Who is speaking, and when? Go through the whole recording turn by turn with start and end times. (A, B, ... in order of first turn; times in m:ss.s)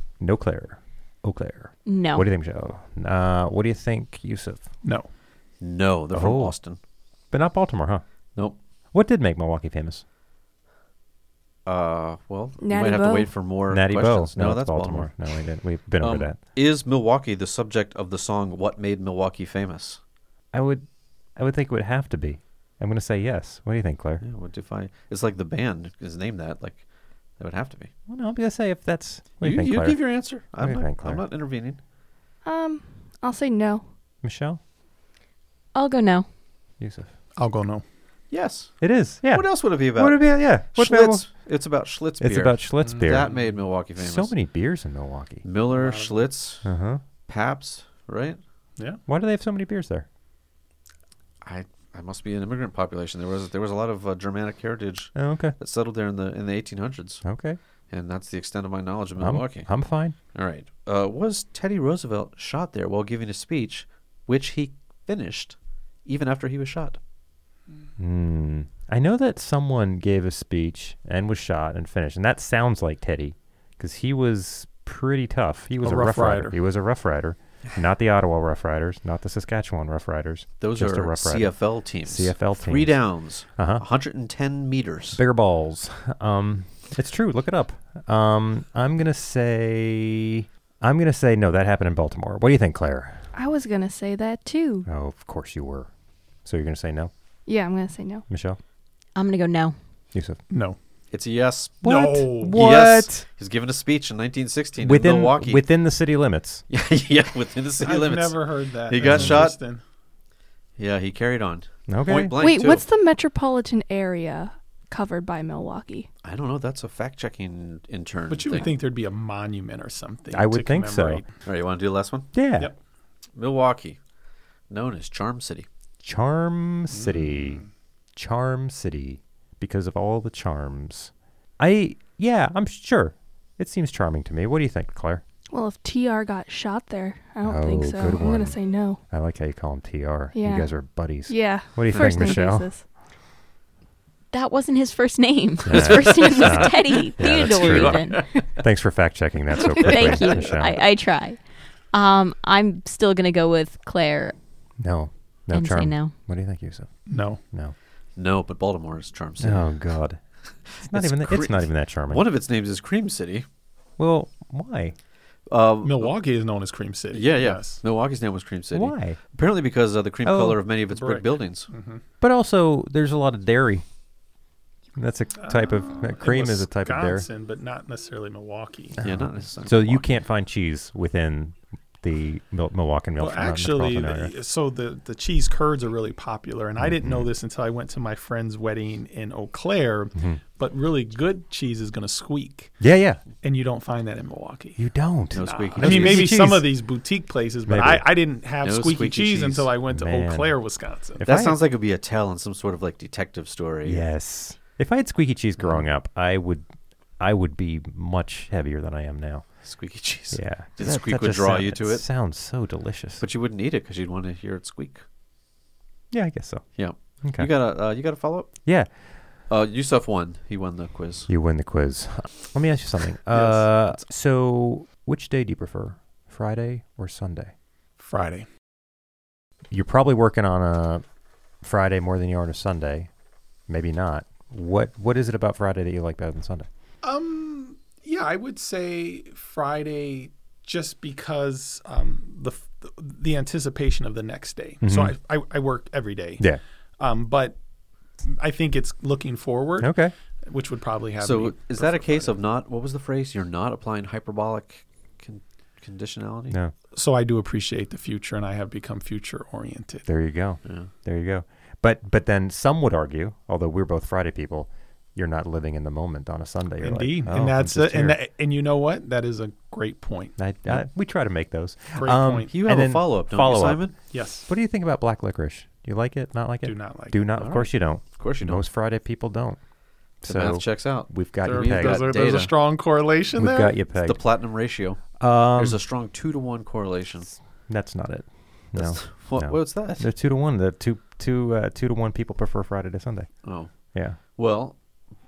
0:00.2-0:04.7 A
0:01.8-0:02.3 B
0:05.6-0:06.8 C
0:06.1-0:06.6 A
0:07.3-0:08.0 A
0:08.9-0:10.0 A
0:11.6-0:15.2 C
0:12.6-0:13.3 D
0:13.7-0:16.4 A
0:16.0-0:20.0 C
0:20.5-0:24.2 A
0:24.2-0:26.8 C
0:27.4-0:27.9 C
0:28.1-0:31.2 A
0:29.4-0:31.8 C
0:32.4-0:33.8 D
0:34.2-0:34.6 A
0:35.7-0:36.3 B
0:36.8-0:37.1 A
0:37.4-0:37.8 E
0:38.3-0:44.3 C
0:38.8-0:41.3 A
0:42.2-0:43.3 A
0:42.8-0:43.4 E
0:44.0-0:45.4 A
0:45.4-0:46.6 C
0:45.7-0:46.3 E
0:46.6-0:47.0 A
0:47.2-0:48.4 C
0:49.1-0:50.0 A
0:51.4-0:57.2 C
0:55.1-0:55.5 A
0:57.2-0:57.6 A
0:57.9-1:07.0 C
0:59.2-1:00.2 A
1:08.0-1:21.5 A
1:15.8-1:16.6 E
1:20.6-1:25.2 C
1:22.0-1:23.0 A
1:23.6-1:23.8 A
1:25.1-1:33.2 A
1:33.3-1:34.9 D
1:34.8-1:35.9 A
1:36.4-1:37.1 A
1:37.4-1:38.2 D
1:38.3-1:38.6 A
1:39.1-1:39.8 B
1:40.1-1:40.4 A
1:40.5-1:40.8 E
1:41.1-1:41.9 C
1:41.8-1:42.6 E
1:41.8-1:43.2 A
1:42.4-1:45.6 C
1:44.8-1:46.6 A
1:46.7-1:49.6 C
1:47.8-1:49.8 E
1:49.0-1:49.4 A
1:50.8-1:52.8 C
1:51.9-1:52.4 A
1:52.4-1:56.1 D
1:56.2-1:58.7 C
1:58.3-2:01.3 E
2:00.3-2:01.2 A
2:01.4-2:02.3 C
2:02.3-2:02.7 A
2:03.4-2:04.0 C
2:04.7-2:05.6 C
2:06.0-2:15.2 A
2:06.9-2:07.6 E
2:15.5-2:19.0 D
2:17.4-2:22.7 A
2:20.3-2:22.8 D
2:24.3-2:28.2 B
2:25.6-2:30.8 A
2:25.7-2:28.6 C
2:29.8-2:31.4 B
2:31.9-2:34.3 B
2:34.8-2:37.7 A
2:35.5-2:36.1 B
2:37.1-2:37.4 E
2:38.2-2:39.8 C
2:39.4-2:42.2 A
2:40.6-2:43.4 C
2:44.0-2:45.0 A
2:45.5-2:46.1 C
2:45.8-2:47.8 E
2:47.1-2:51.7 C
2:48.7-2:49.2 A
2:50.2-2:50.6 A
2:50.9-2:52.0 E
2:52.2-2:53.8 A
2:55.0-2:57.3 A
2:55.4-2:59.0 E
2:59.0-3:04.3 A
2:59.0-3:00.1 C
3:03.2-3:12.8 E
3:06.8-3:07.3 A
3:10.1-3:10.4 A
3:12.8-3:13.2 A
3:13.4-3:14.8 E
3:14.8-3:16.8 A
3:15.3-3:16.4 C
3:15.3-3:21.2 E
3:17.6-3:18.0 A
3:18.6-3:19.7 C
3:19.9-3:20.6 A
3:21.2-3:21.6 A
3:21.2-3:24.0 C
3:23.8-3:26.7 A
3:27.2-3:29.5 A
3:29.6-3:32.1 C
3:30.3-3:33.2 A
3:33.2-3:35.0 C
3:36.1-3:36.7 A
3:36.8-3:38.6 C
3:37.2-3:37.5 A
3:39.5-3:41.3 C
3:41.3-3:47.5 A
3:43.3-3:43.7 E
3:48.0-3:48.4 E
3:49.7-3:51.0 A
3:51.6-3:53.1 A
3:53.7-3:56.7 A
3:57.0-4:06.5 E
4:04.8-4:05.1 A
4:07.0-4:07.6 E
4:08.2-4:12.3 E
4:09.8-4:10.1 A
4:11.2-4:16.6 C
4:16.9-4:20.1 E
4:20.0-4:28.2 A
4:20.6-4:20.9 C
4:26.8-4:30.3 E
4:30.4-4:33.9 A
4:32.0-4:32.5 E
4:32.5-4:34.0 C
4:34.1-4:34.4 E
4:34.5-4:39.6 A
4:36.6-4:37.2 E
4:37.4-4:38.6 C
4:40.2-4:42.2 A
4:40.2-4:42.5 C
4:41.4-4:43.7 E
4:43.3-4:44.2 A
4:44.0-4:47.3 C
4:45.2-4:45.8 A
4:47.7-4:53.3 A
4:48.7-4:50.1 C
4:53.4-4:54.8 C
4:53.9-4:54.2 A